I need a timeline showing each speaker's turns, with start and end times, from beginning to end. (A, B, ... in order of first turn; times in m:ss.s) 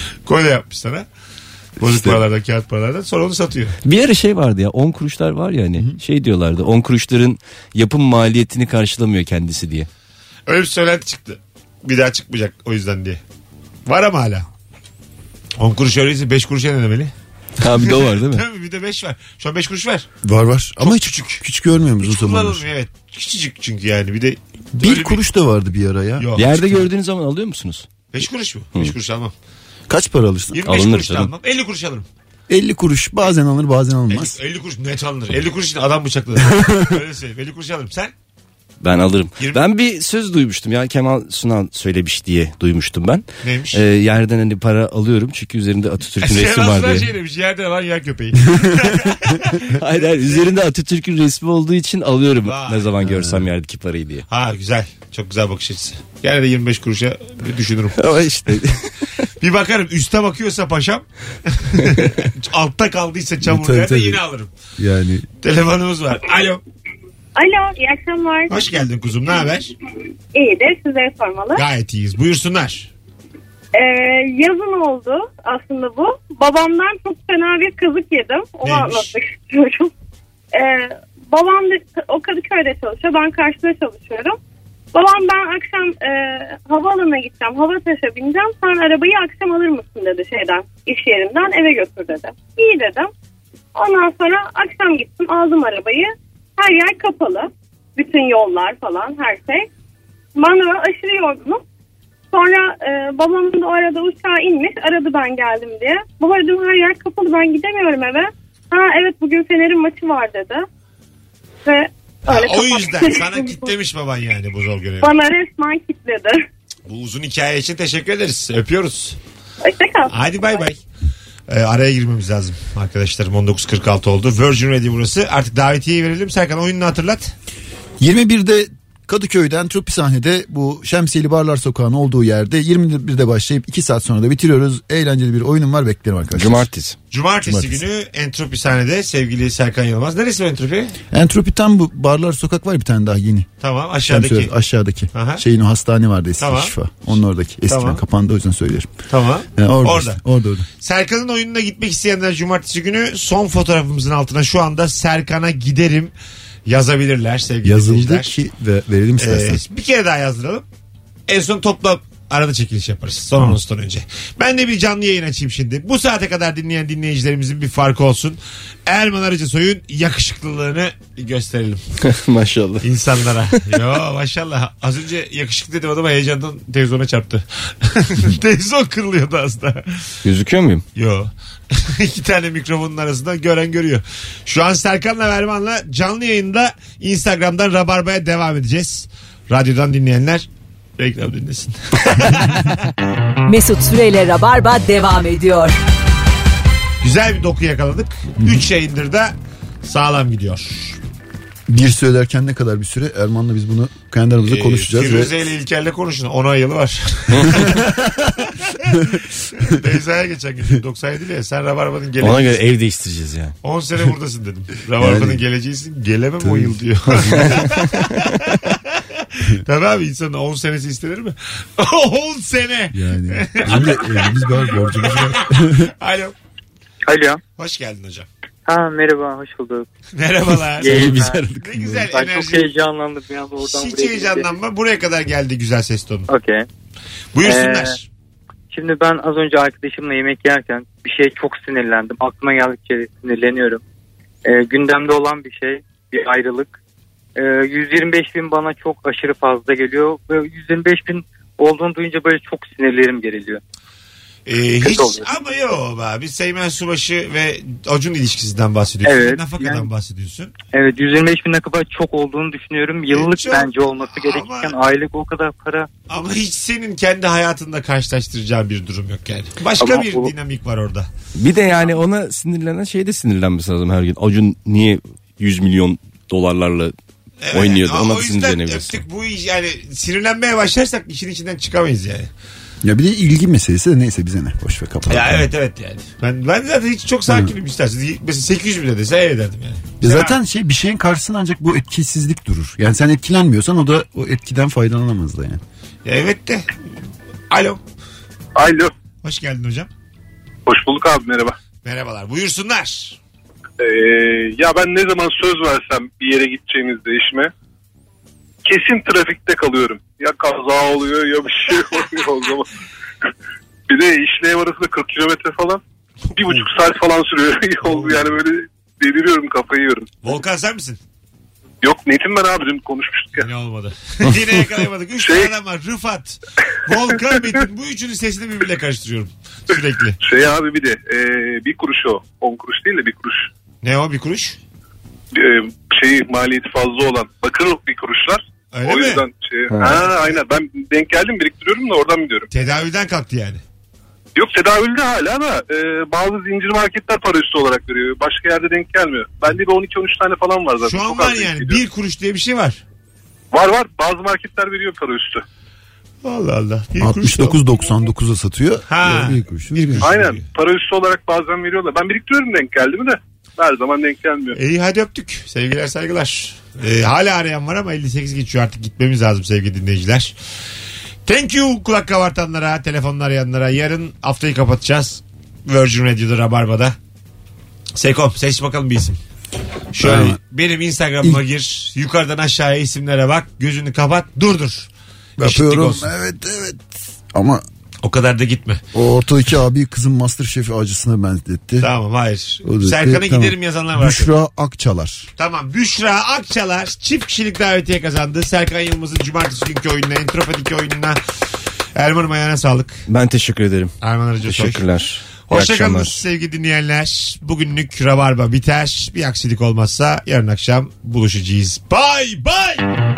0:00.2-0:01.0 A
0:01.8-0:03.7 A
0:01.8-0:02.2 B
0:03.8-0:09.9 C
0:10.5-0:13.2 A
0:13.8-0:14.4 A
0:15.6-0:17.1 A
0:17.6-0:18.4 C
0:18.0-0:20.1 A
0:20.2-0:22.6 B
0:20.8-0:21.4 A
0:22.0-0:25.2 A
0:24.8-0:26.3 B
0:26.2-0:26.8 A
0:26.4-0:27.9 C
0:28.1-0:29.3 A
0:29.9-0:30.7 B
0:30.5-0:32.1 A
0:30.7-0:31.3 C
0:32.5-0:34.4 B
0:34.1-0:38.1 A
0:36.5-0:36.8 B
0:38.8-0:47.1 C
0:43.4-0:43.8 A
0:46.2-0:50.6 A
0:49.8-0:54.2 C
0:52.4-0:52.9 A
0:53.0-0:53.4 B
0:54.3-0:58.0 A
0:58.0-0:59.1 C
0:59.4-1:04.5 A
1:03.4-1:04.2 B
1:04.8-1:05.2 B
1:05.4-1:06.6 A
1:07.4-1:08.5 D
1:08.5-1:09.7 A
1:10.3-1:11.6 D
1:11.5-1:12.9 A
1:13.7-1:19.9 D
1:18.6-1:19.1 A
1:20.5-1:24.4 D
1:24.9-1:33.1 D
1:33.7-1:39.7 D
1:40.4-1:41.6 D
1:42.3-1:50.6 D
1:51.6-1:53.7 D
1:52.2-1:55.1 A
1:55.0-1:56.4 D
1:56.9-1:59.2 A
1:59.6-2:00.1 D
2:00.1-2:00.8 A
2:01.5-2:07.3 A
2:08.0-2:16.6 B
2:16.3-2:17.0 C
2:17.1-2:20.9 A
2:17.4-2:17.8 B
2:21.1-2:23.5 B
2:23.6-2:24.5 A
2:24.0-2:28.9 B
2:25.1-2:25.4 A
2:26.4-2:26.7 A
2:27.7-2:28.0 A
2:29.1-2:30.2 A
2:29.6-2:30.7 B
2:30.8-2:36.1 A
2:36.6-2:38.4 A
2:37.6-2:39.6 B
2:39.2-2:40.6 A
2:41.3-2:51.8 A
2:52.0-2:52.8 C
2:52.8-3:00.1 A
3:00.2-3:00.8 C
3:01.0-3:10.4 A
3:11.0-3:12.7 A
3:13.4-3:15.8 E
3:17.0-3:21.0 A
3:18.4-3:18.6 B
3:21.7-3:25.3 B
3:24.4-3:27.9 A
3:27.3-3:27.6 C
3:27.6-3:28.3 B
3:28.4-3:32.6 A
3:32.2-3:33.5 C
3:33.6-3:46.3 A
3:35.0-3:35.4 B
3:36.4-3:37.5 B
3:37.3-3:37.6 C
3:42.9-3:45.9 B
3:47.1-3:47.4 F
3:47.6-3:48.3 A
3:48.6-3:49.8 F
3:50.2-3:52.8 A
3:50.8-3:51.4 F
3:50.8-3:52.1 B
3:52.1-3:54.5 F
3:53.6-3:56.3 A
3:56.3-3:56.6 F
3:57.3-3:58.0 A
3:57.4-3:58.0 F
3:58.7-4:03.8 F
4:04.4-4:06.7 F
4:07.4-4:13.6 F
4:14.4-4:20.5 A
4:14.8-4:15.4 F
4:19.0-4:19.9 F
4:20.7-4:25.9 F
4:23.1-4:24.8 A
4:26.1-4:31.1 A
4:29.8-4:30.3 F
4:31.4-4:36.9 C
4:37.4-4:42.3 A
4:37.5-4:39.0 C
4:42.8-4:45.5 B
4:45.1-4:50.4 A
4:50.0-4:55.6 B
4:56.0-4:56.7 A
4:57.5-4:57.8 A
4:58.6-4:58.9 G
4:59.2-4:59.9 A
5:00.6-5:01.5 G
5:01.8-5:03.2 A
5:03.8-5:07.5 G
5:08.6-5:12.7 G
5:13.9-5:15.8 G
5:16.4-5:20.1 G
5:17.9-5:18.3 A
5:20.2-5:21.0 A
5:21.8-5:23.5 G
5:23.4-5:30.2 A
5:25.2-5:25.5 G
5:30.2-5:33.5 G
5:33.8-5:34.6 A
5:35.3-5:42.5 G
5:38.7-5:39.2 A
5:39.7-5:40.0 C
5:42.5-5:43.6 A
5:44.4-5:51.8 G
5:50.8-5:52.8 A
5:53.5-5:55.4 G
5:56.2-5:57.6 A
5:57.0-6:00.1 B
5:58.9-5:59.4 A
5:59.9-6:00.4 A
6:00.0-6:04.6 G
6:04.5-6:10.3 A
6:11.2-6:16.9 A
6:18.0-6:19.2 A
6:19.9-6:26.1 A
6:20.0-6:20.4 B
6:25.4-6:27.6 B
6:28.0-6:28.8 A
6:28.9-6:31.9 B
6:31.8-6:34.3 A
6:32.6-6:35.3 B
6:35.4-6:41.2 A
6:42.0-6:43.0 A
6:43.1-6:43.9 C
6:44.0-6:44.8 A
6:44.4-6:46.2 C
6:45.4-6:52.8 A